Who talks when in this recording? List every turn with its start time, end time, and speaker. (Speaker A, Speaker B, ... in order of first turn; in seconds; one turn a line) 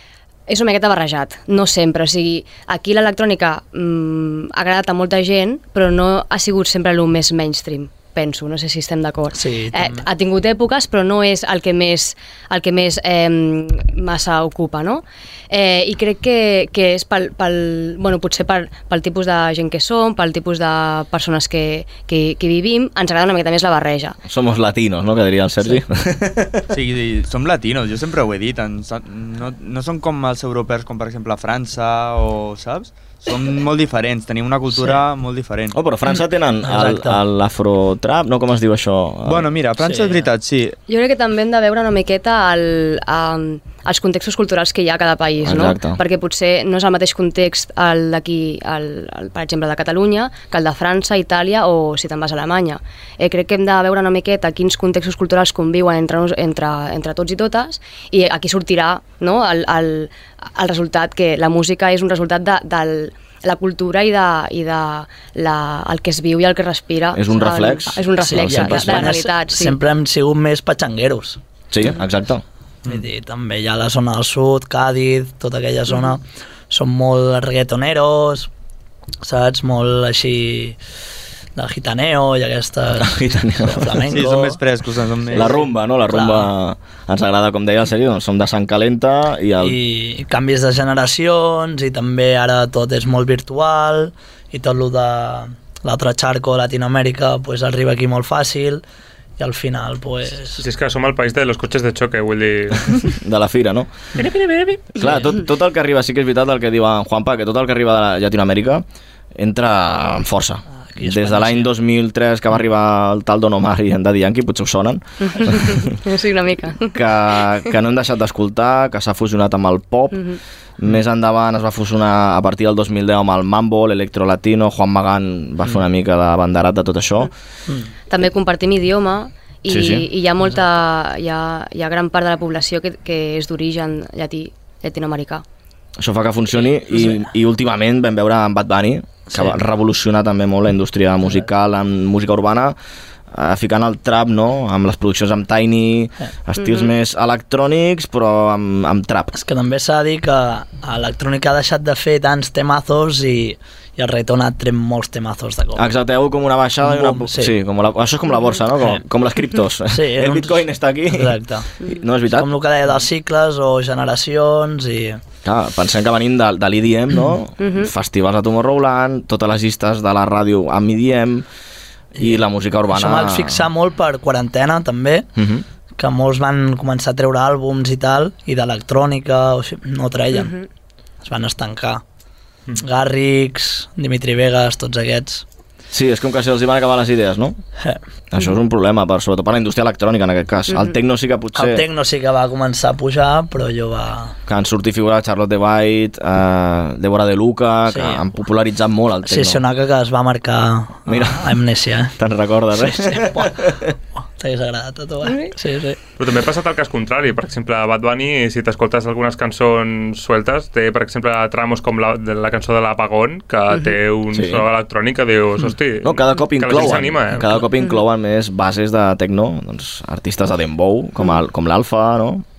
Speaker A: 0.5-24.2
Speaker B: 9.3-10.0
Speaker C: 24.2-26.6
Speaker D: 26.7-35.8
Speaker C: 35.7-39.5
Speaker B: 36.6-37.2
Speaker D: 39.2-40.8
Speaker B: 39.8-40.3
Speaker A: 40.9-69.8
Speaker C: 45.4-46.0
Speaker C: 67.1-69.2
Speaker B: 68.2-71.4
Speaker C: 71.7-72.4
Speaker B: 72.9-78.5
Speaker B: 79.2-80.8
Speaker B: 81.5-84.6
Speaker C: 83.0-83.9
Speaker D: 84.1-85.6
Speaker C: 85.3-89.8
Speaker B: 86.1-86.5
Speaker B: 89.6-98.8
Speaker B: 99.4-100.6
Speaker E: 100.6-103.1
Speaker C: 103.2-103.9
Speaker E: 104.2-104.9
Speaker C: 105.0-108.8
Speaker C: 109.4-115.9
Speaker B: 110.9-111.7
Speaker A: 115.2-117.5
Speaker C: 116.9-120.2
Speaker A: 120.1-120.4
Speaker C: 120.8-127.3
Speaker A: 128.1-135.4
Speaker C: 129.7-130.1
Speaker C: 136.0-142.8
Speaker C: 143.3-149.3
Speaker A: 146.6-146.9
Speaker B: 149.3-155.9
Speaker C: 155.8-162.5
Speaker B: 156.8-157.5
Speaker B: 159.9-161.7
Speaker B: 162.3-165.2
Speaker C: 165.4-171.5
Speaker A: 167.6-167.9
Speaker C: 172.2-173.7
Speaker B: 172.9-175.3
Speaker C: 175.4-175.6
Speaker B: 176.0-180.5
Speaker A: 180.3-180.7
Speaker B: 181.2-182.0
Speaker B: 182.8-185.4
Speaker C: 185.9-187.6
Speaker C: 188.3-191.8
Speaker A: 190.7-190.9
Speaker B: 191.5-194.4
Speaker C: 194.5-199.6
Speaker B: 197.9-198.2
Speaker B: 199.2-202.1
Speaker C: 201.1-201.6
Speaker C: 202.2-203.7
Speaker B: 202.8-203.8
Speaker B: 204.4-206.0
Speaker A: 205.2-205.5
Speaker E: 206.2-217.6
Speaker C: 214.3-214.7
Speaker C: 216.0-222.4